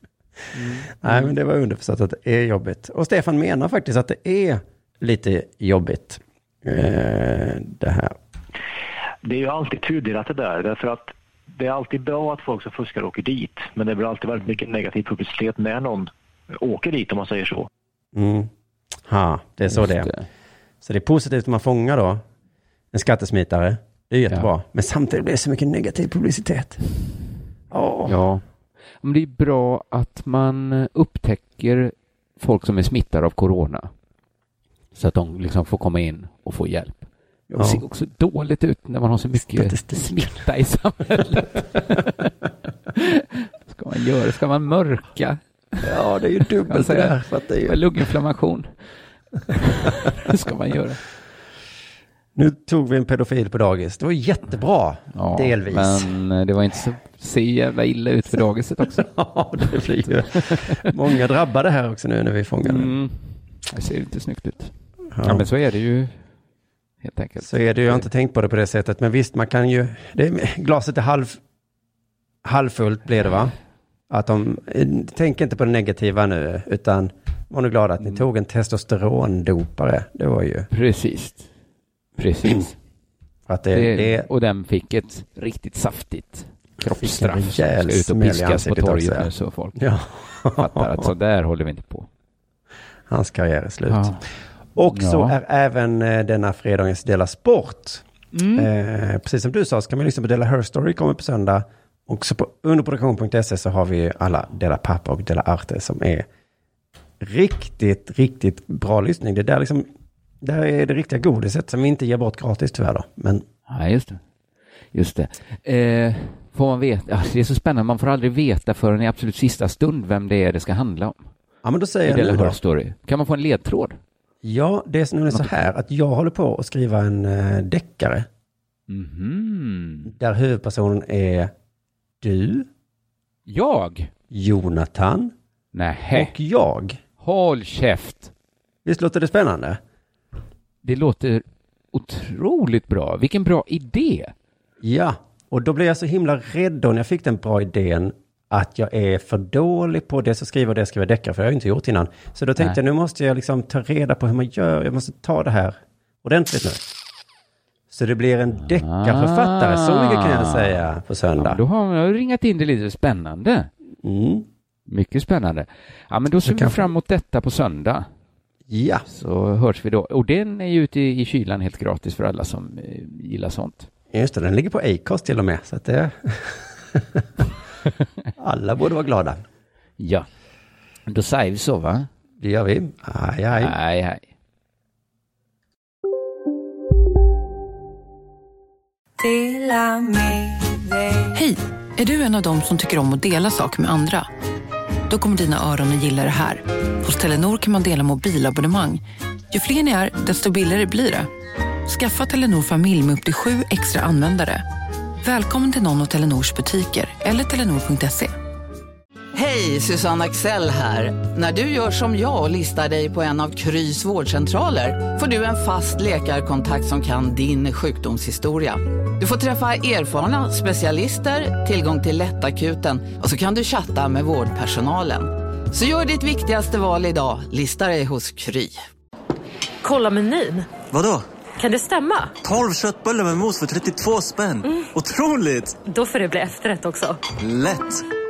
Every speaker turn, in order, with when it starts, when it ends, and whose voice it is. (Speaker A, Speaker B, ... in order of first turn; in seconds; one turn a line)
Speaker A: 0.5-1.4
Speaker B: 0.9-8.2
Speaker C: 9.2-17.7
Speaker B: 18.1-18.5
Speaker B: 19.0-20.1
Speaker A: 19.7-20.3
Speaker B: 20.8-22.2
Speaker B: 22.9-26.8
Speaker B: 27.7-28.2
Speaker A: 28.1-28.4
Speaker A: 29.0-33.9
Speaker A: 34.9-42.3
Speaker B: 37.5-37.8
Speaker B: 39.4-40.4
Speaker A: 42.9-45.8
Speaker B: 45.8-47.8
Speaker A: 46.6-48.7
Speaker A: 49.5-51.0
Speaker B: 52.3-56.1
Speaker A: 55.1-59.1
Speaker B: 58.9-62.9
Speaker A: 59.8-60.9
Speaker A: 62.6-66.2
Speaker B: 65.1-65.4
Speaker A: 67.0-68.1
Speaker B: 67.4-71.4
Speaker B: 72.4-73.5
Speaker B: 74.1-80.7
Speaker A: 80.7-81.5
Speaker A: 82.2-82.8
Speaker B: 83.5-84.2
Speaker A: 83.7-89.8
Speaker B: 87.0-91.1
Speaker A: 90.5-92.1
Speaker B: 93.1-106.2
Speaker A: 93.9-94.2
Speaker A: 94.9-95.3
Speaker B: 107.2-109.9
Speaker B: 110.4-113.4
Speaker A: 113.7-114.2
Speaker A: 114.9-121.2
Speaker B: 121.6-122.6
Speaker A: 122.0-124.0
Speaker B: 124.4-128.3
Speaker A: 128.9-130.1
Speaker B: 130.0-131.5
Speaker B: 132.2-132.7
Speaker A: 133.5-134.1
Speaker B: 134.3-135.3
Speaker A: 135.7-136.3
Speaker B: 136.1-137.0
Speaker A: 137.2-138.3
Speaker B: 138.8-139.8
Speaker A: 140.8-144.3
Speaker B: 144.8-156.9
Speaker B: 157.9-161.6
Speaker A: 158.6-163.7
Speaker B: 164.0-164.4
Speaker A: 164.9-168.1
Speaker B: 166.4-166.9
Speaker B: 168.7-169.0
Speaker A: 169.1-173.9
Speaker B: 174.1-177.4
Speaker B: 178.4-179.4
Speaker A: 180.0-180.3
Speaker A: 181.1-182.1
Speaker B: 182.4-183.8
Speaker A: 183.6-184.3
Speaker D: 189.2-191.1
Speaker E: 191.3-194.3
Speaker E: 195.1-201.3
Speaker E: 201.8-204.6
Speaker E: 205.2-208.3
Speaker F: 209.3-228.7
Speaker D: 229.8-230.8
Speaker G: 230.9-231.2
Speaker D: 231.6-232.4
Speaker G: 232.4-235.8
Speaker D: 234.6-234.9
Speaker D: 235.8-237.2
Speaker G: 237.4-237.9